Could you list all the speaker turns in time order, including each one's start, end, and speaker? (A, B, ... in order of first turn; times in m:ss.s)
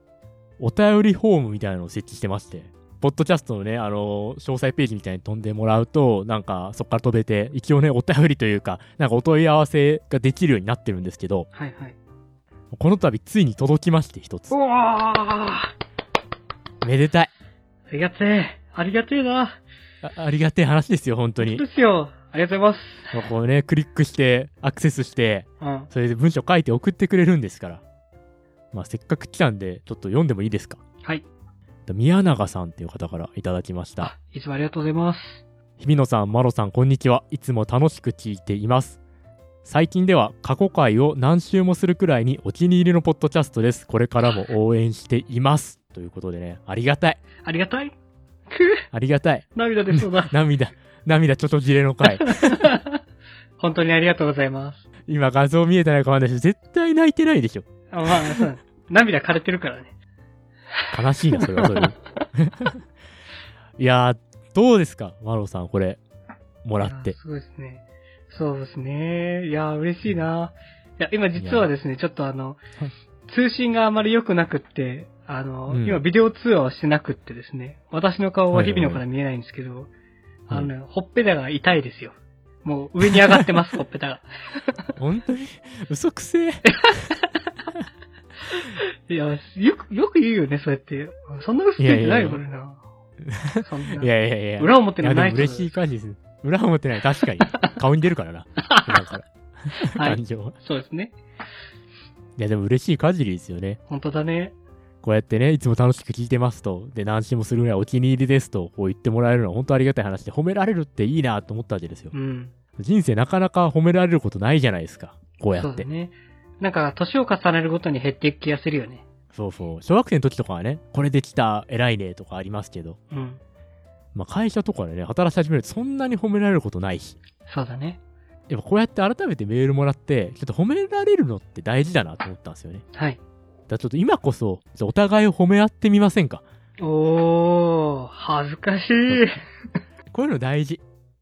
0:00.6-0:11.5 A
0:11.5-0:12.0 B
0:12.7-0:14.5 A
0:14.5-0:15.7 B
0:16.8-0:17.3 A
0:17.9-0:19.6 B
0:20.0-0:21.6 A
0:21.4-0:23.2 B
0:23.1-0:27.8 A
0:25.6-0:25.9 B
0:28.7-0:30.8 A
0:31.9-0:34.1 A
0:34.0-0:35.4 B
0:35.8-0:39.0 A
0:39.6-0:47.2 A
0:47.4-0:47.9 B
0:48.5-0:48.8 B
0:48.9-0:52.6 A
0:49.6-0:50.3 B
0:52.2-0:53.0 B
0:53.6-0:54.8 B
0:55.1-0:57.7 A
0:57.9-0:59.9 B
1:00.9-1:02.8 A
1:01.4-1:01.9 B
1:03.8-1:06.0 A
1:06.6-1:07.2 A
1:06.8-1:12.6 B
1:11.4-1:11.7 A
1:13.3-1:19.9 B
1:15.7-1:16.0 A
1:18.5-1:19.0 A
1:20.5-1:24.3 B
1:25.0-1:26.8 A
1:28.5-1:32.8 B
1:31.8-1:32.4 A
1:33.3-1:40.6 A
1:33.6-1:35.8 B
1:39.9-1:41.2 B
1:42.4-1:43.8 A
1:43.9-1:44.6 B
1:45.0-1:52.1 A
1:52.1-1:52.5 B
1:52.8-1:55.9 A
1:55.6-1:59.0 B
1:59.3-2:03.0 A
2:03.1-2:03.4 B
2:04.2-2:07.2 A
2:07.5-2:08.0 B
2:08.5-2:12.8 A
2:12.9-2:13.2 B
2:13.7-2:16.4 A
2:16.8-2:19.4 B
2:20.1-2:20.8 A